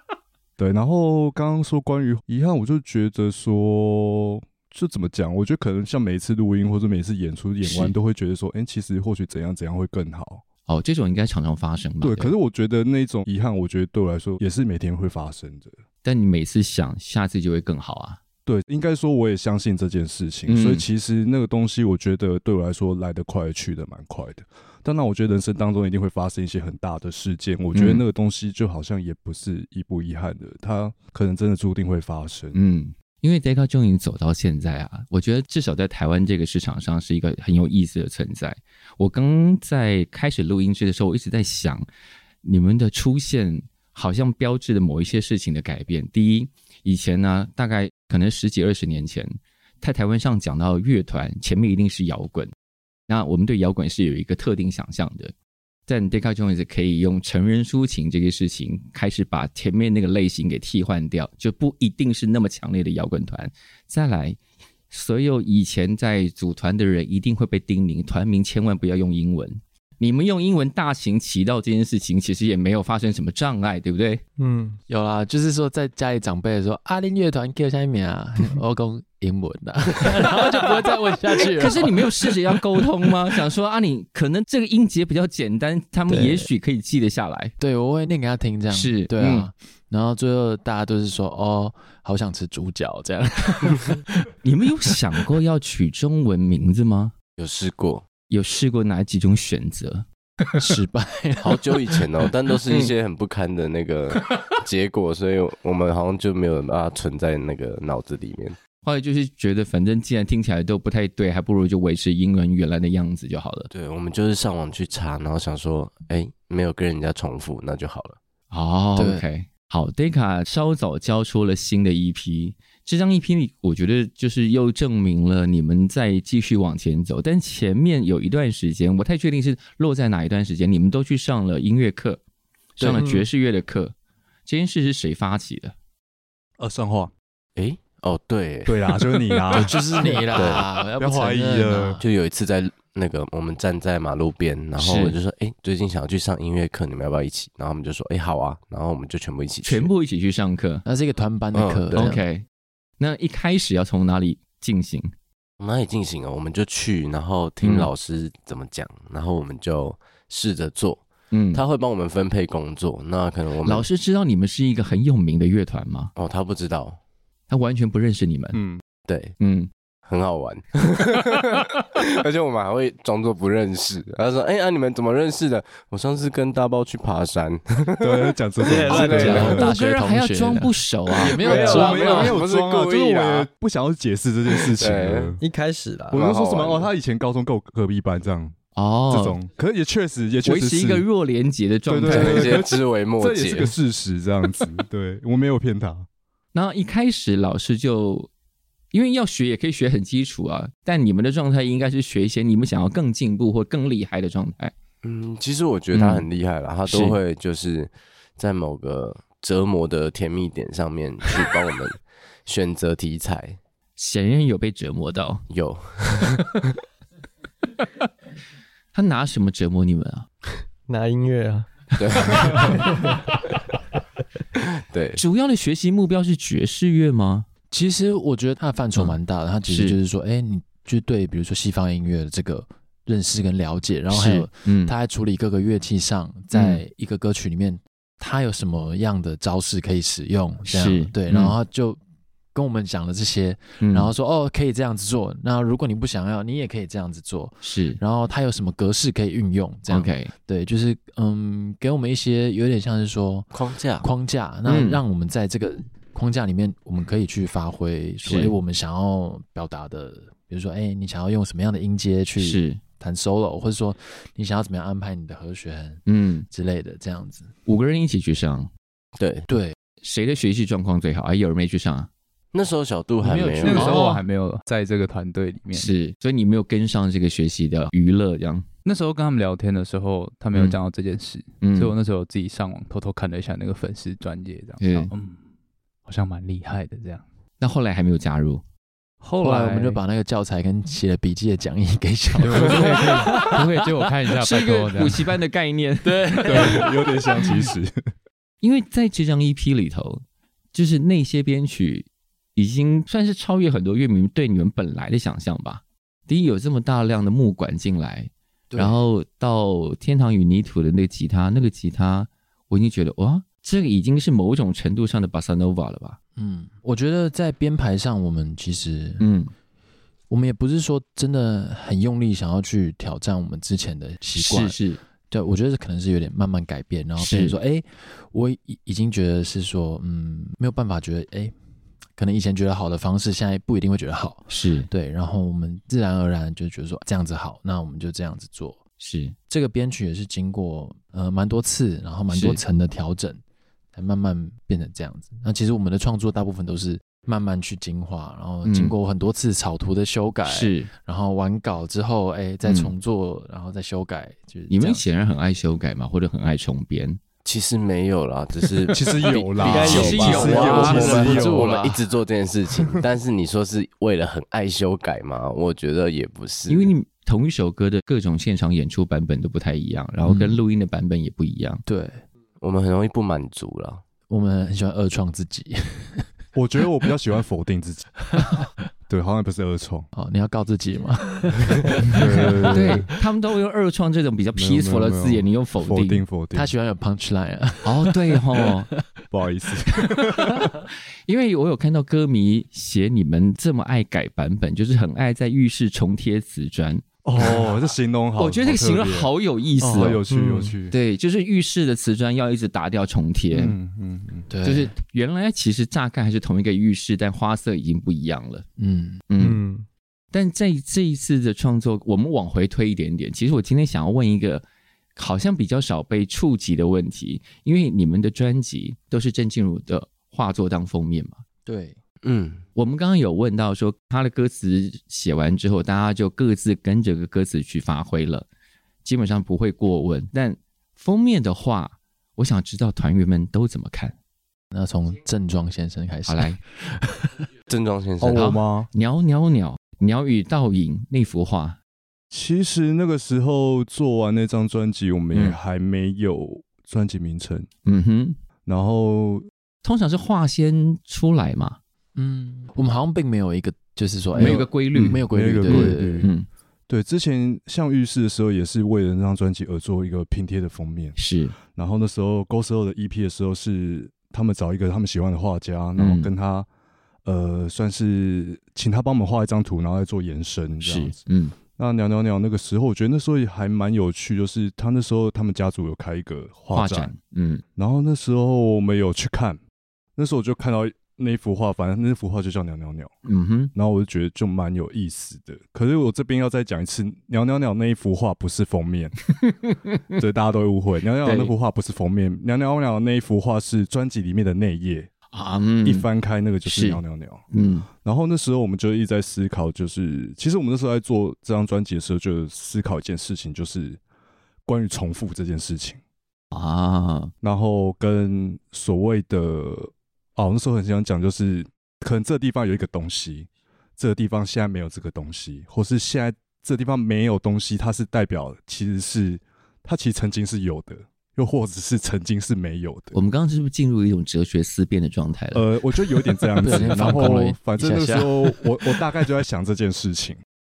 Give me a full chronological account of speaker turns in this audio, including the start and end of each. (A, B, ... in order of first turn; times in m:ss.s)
0:00.6-0:10.4 A
0:07.6-0:07.9 B
0:10.7-0:12.3 B
0:12.0-0:15.7 A
0:16.0-0:18.2 B
0:18.4-0:32.6 A
0:20.5-0:20.8 B
0:27.7-0:28.0 B
0:32.5-0:41.8 B
0:42.4-0:52.5 B
0:53.1-0:55.3 B
0:55.9-1:04.4 B
1:04.9-1:14.2 B
1:14.4-1:14.8 C
1:14.9-1:22.3 D
1:21.4-1:27.5 B
1:27.6-1:34.1 D
1:28.7-1:29.5 B
1:34.4-1:37.1 B
1:37.4-1:38.0 E
1:38.3-1:40.0 B
1:40.6-1:41.6 D
1:41.4-1:48.6 E
1:48.8-1:53.7 B
1:53.7-1:58.2 E
1:58.5-2:12.2 B
1:59.0-1:59.2 D
2:12.8-2:13.2 D
2:12.8-2:13.9 B
2:14.4-2:15.7 B
2:16.6-2:17.1 A
2:17.6-2:19.0 E
2:18.6-2:19.8 A
2:19.5-2:22.0 D
2:20.3-2:20.6 E
2:21.0-2:22.0 A
2:22.0-2:29.9 E
2:24.8-2:25.2 B
2:29.6-2:30.8 B
2:30.8-2:32.2 D
2:31.5-2:32.1 E
2:31.9-2:32.4 B
2:33.0-2:35.1 B
2:35.6-2:43.9 E
2:37.6-2:37.9 B
2:41.3-2:41.6 B
2:43.6-2:46.1 B
2:46.2-2:47.0 E
2:47.5-2:48.6 B
2:48.5-2:48.8 A
2:49.1-2:49.3 E
2:49.4-2:49.7 B
2:50.0-2:59.6 E
2:58.0-2:59.6 A
2:58.6-2:59.4 C
2:59.2-3:01.4 B
2:59.2-3:00.8 D
3:01.2-3:02.3 C
3:01.3-3:03.5 E
3:01.4-3:05.4 A
3:04.8-3:05.4 E
3:05.4-3:06.3 C
3:06.1-3:08.6 A
3:06.1-3:06.9 E
3:08.7-3:09.4 B
3:09.1-3:11.0 A
3:10.4-3:12.6 B
3:11.9-3:16.1 A
3:12.1-3:13.7 E
3:16.5-3:18.3 B
3:18.9-3:24.7 B
3:25.0-3:33.6 E
3:25.9-3:26.2 B
3:26.9-3:27.2 B
3:34.0-3:35.4 B
3:35.5-3:36.6 E
3:38.9-3:40.3 B
3:40.8-3:41.7 C
3:42.0-3:42.9 E
3:42.2-3:42.6 B
3:42.4-3:43.4 C
3:44.9-3:45.2 E
3:45.2-3:47.4 B
3:47.7-4:02.0 D
3:49.7-3:50.0 B
3:54.1-3:54.9 B
3:56.5-3:56.8 B
4:00.7-4:01.6 B
4:02.5-4:27.5 D
4:03.8-4:04.1 B
4:07.6-4:08.0 B
4:09.9-4:10.3 B
4:13.5-4:14.0 E
4:14.6-4:15.0 B
4:18.2-4:18.5 B
4:22.4-4:22.8 B
4:26.0-4:26.5 B
4:27.6-4:28.7 B
4:29.2-4:29.5 E
4:29.5-4:29.8 D
4:30.0-4:32.1 B
4:32.5-4:34.1 E
4:33.2-4:35.9 F
4:33.6-4:34.2 B
4:35.7-4:38.7 B
4:38.8-4:45.4 F
4:41.6-4:41.9 B
4:44.8-4:45.1 B
4:46.0-4:47.2 F
4:47.6-4:48.6 B
4:49.2-4:50.0 F
4:49.4-4:53.4 D
4:52.4-4:55.3 F
4:52.7-4:53.8 B
4:54.3-4:57.1 B
4:56.4-4:57.9 A
4:58.6-5:16.2 B
5:08.7-5:09.0 D
5:16.4-5:19.2 D
5:19.2-5:19.5 B
5:20.3-5:24.8 D
5:24.4-5:25.0 B
5:25.3-5:31.5 D
5:27.2-5:27.6 B
5:32.2-5:38.8 D
5:34.5-5:34.9 B
5:39.0-5:39.4 B
5:39.5-5:43.4 D
5:42.3-5:42.6 B
5:43.9-5:55.0 D
5:48.6-5:49.0 B
5:50.4-5:50.9 B
5:52.6-5:52.9 B
5:54.7-5:57.2 B
5:57.4-6:06.9 E
5:58.9-6:01.7 A
5:59.2-6:01.3 B
5:59.6-6:01.7 C
6:06.7-6:11.8 B
6:10.2-6:10.6 D
6:11.8-6:12.2 D
6:12.6-6:14.0 E
6:14.3-6:16.3 D
6:16.5-6:18.2 A
6:19.1-6:20.1 A
6:20.1-6:23.0 D
6:22.0-6:23.1 A
6:22.7-6:26.2 B
6:24.5-6:26.7 A
6:26.5-6:28.7 D
6:27.8-6:28.9 B
6:29.3-6:30.7 A
6:31.2-6:37.5 B
6:37.2-6:41.0 A
6:38.4-6:40.2 B
6:40.3-6:40.7 C
6:40.9-6:43.8 B
6:43.5-6:44.5 A
6:44.5-6:44.9 D
6:44.6-6:48.6 B
6:48.8-6:49.2 D
6:49.3-6:49.6 B
6:49.4-6:49.9 C
6:50.3-6:54.6 B
6:55.2-7:01.4 B
7:01.6-7:02.0 D
7:02.2-7:02.6 E
7:02.8-7:08.4 B
7:09.0-7:14.2 B
7:14.7-7:17.4 D
7:16.3-7:16.6 B
7:17.7-7:18.5 E
7:18.2-7:18.9 A
7:18.3-7:21.8 B
7:22.3-7:27.7 A
7:27.8-7:28.4 B
7:28.6-7:29.4 A
7:29.8-7:31.8 B
7:32.1-7:36.3 D
7:34.3-7:36.5 B
7:34.4-7:36.3 A
7:36.9-7:41.2 A
7:41.2-7:41.6 B
7:41.7-7:46.7 A
7:46.0-7:46.3 B
7:47.2-7:51.2 A
7:50.8-7:51.6 B
7:51.7-7:57.1 A
7:56.7-7:57.6 B
7:57.8-7:59.6 A
8:00.2-8:03.1 A
8:03.2-8:03.7 B
8:03.7-8:09.2 A
8:09.3-8:10.1 B
8:10.2-8:15.1 A
8:11.2-8:11.5 B
8:15.3-8:16.1 B
8:15.8-8:17.4 A
8:16.6-8:17.9 B
8:18.0-8:24.0 A
8:24.6-8:26.0 A
8:26.5-8:27.3 B
8:27.4-8:43.2 A
8:43.1-8:45.7 B
8:45.5-8:50.4 A
8:46.6-8:49.2 D
8:46.6-8:47.2 B